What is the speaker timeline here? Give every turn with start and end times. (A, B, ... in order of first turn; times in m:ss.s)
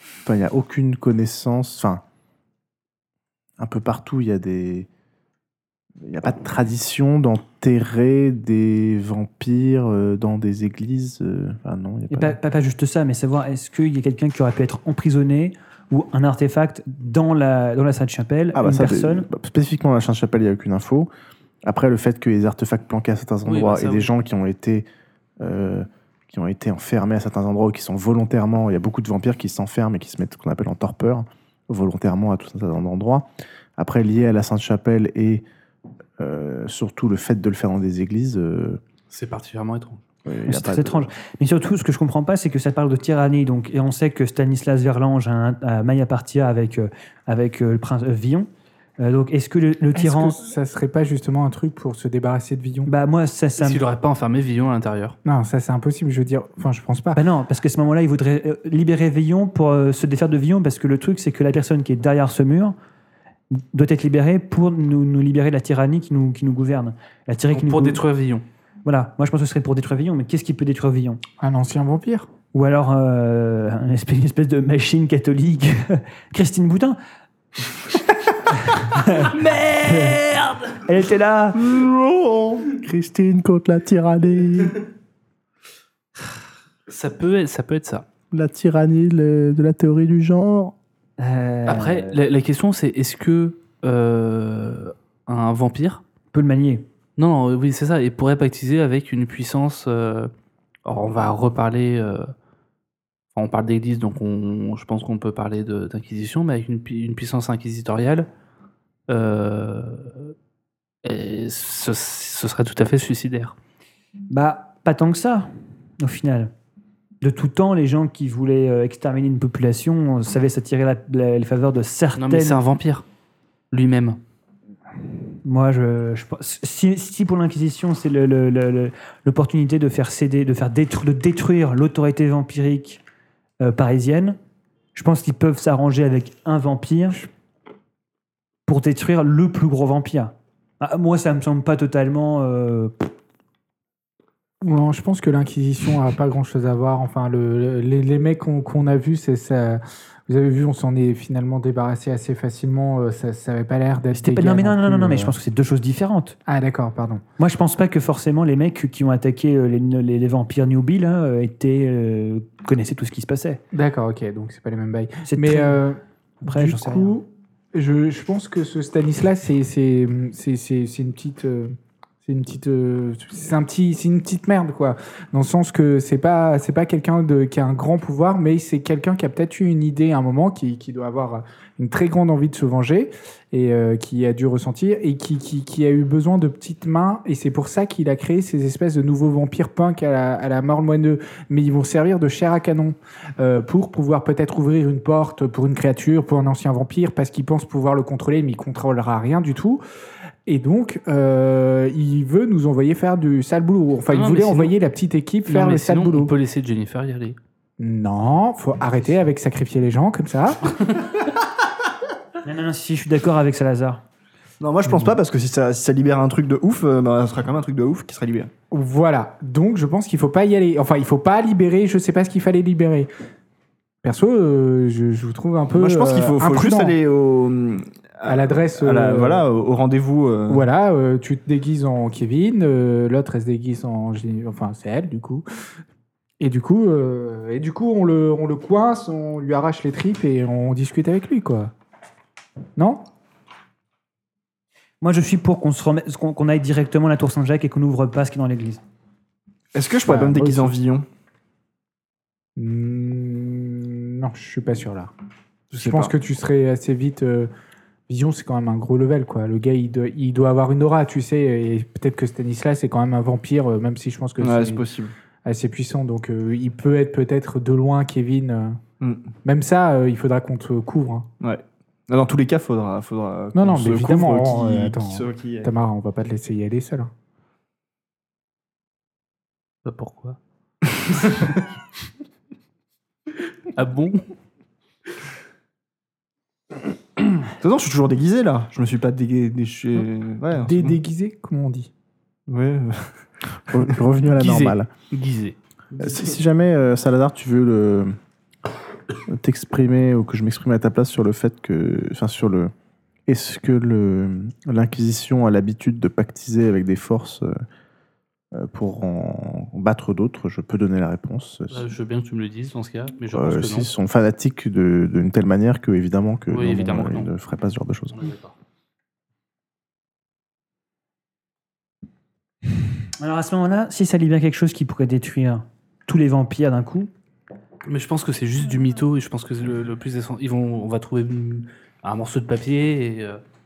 0:00.2-0:02.0 A
0:03.6-0:04.9 A
0:06.0-0:12.4 A
0:12.1-0:19.3 B
0:18.5-0:21.1 A
0:21.6-0:24.9 A
0:23.4-0:24.1 C
0:25.4-0:35.4 A
0:36.2-0:38.8 A
0:39.1-0:40.0 C
0:40.2-0:41.1 A
0:40.4-0:48.5 B
0:49.0-0:50.4 B
0:49.9-0:52.9 D
0:52.8-0:53.8 B
0:53.6-0:55.2 C
0:55.2-0:57.2 D
0:57.1-1:02.7 B
1:03.5-1:08.0 B
1:07.5-1:08.4 C
1:08.8-1:11.2 B
1:11.4-1:12.3 D
1:12.5-1:17.0 B
1:18.5-1:20.2 B
1:19.3-1:20.7 C
1:20.8-1:21.6 B
1:21.6-1:24.8 A
1:26.9-1:28.0 C
1:28.3-1:30.7 A
1:31.2-1:32.2 B
1:31.7-1:36.0 C
1:36.3-1:36.8 B
1:37.2-1:40.3 C
1:40.8-1:42.3 C
1:43.3-1:48.3 C
1:49.1-1:50.3 C
1:51.0-1:53.5 C
1:54.3-1:55.5 B
1:56.0-1:56.5 B
1:57.2-2:02.6 B
2:02.2-2:03.0 C
2:03.7-2:04.2 C
2:05.4-2:13.0 B
2:13.6-2:14.4 B
2:14.9-2:17.2 B
2:18.7-2:23.1 B
2:24.6-2:35.3 D
2:34.1-2:36.4 B
2:36.4-2:37.2 D
2:37.4-2:43.6 B
2:43.7-3:19.8 D
2:45.2-2:45.8 B
2:46.4-2:47.1 B
3:20.4-3:26.3 D
3:24.1-3:24.8 C
3:25.5-3:27.4 C
3:27.8-3:30.9 D
3:32.4-3:34.0 B
3:34.6-3:38.5 E
3:34.9-3:35.2 D
3:38.7-3:43.1 D
3:44.0-3:47.0 D
3:45.7-3:50.6 E
3:48.2-3:49.4 D
3:50.5-3:55.4 D
3:56.4-4:01.7 D
4:02.8-4:03.0 D
4:05.0-4:08.8 B
4:09.7-4:11.0 E
4:10.0-4:10.7 D
4:12.6-4:15.1 D
4:15.7-4:16.1 E
4:15.7-4:17.5 D
4:18.1-4:24.8 D
4:24.4-4:25.1 E
4:25.4-4:28.8 D
4:29.0-4:29.3 E
4:29.4-4:31.3 D
4:31.4-4:35.7 E
4:33.5-4:37.1 D
4:39.8-4:40.4 C
4:43.7-4:44.3 C
4:47.6-4:51.0 E
4:50.6-4:51.9 D
4:52.5-4:53.2 E
4:53.7-4:54.9 A
4:54.4-4:55.6 C
4:56.0-4:58.1 A
4:56.0-4:56.3 E
4:59.3-5:02.7 A
5:03.3-5:07.6 A
5:08.5-5:11.9 A
5:11.7-5:13.9 C
5:13.3-5:18.3 A
5:16.5-5:17.3 C
5:18.1-5:18.5 C
5:23.2-5:27.1 B
5:27.8-5:33.4 C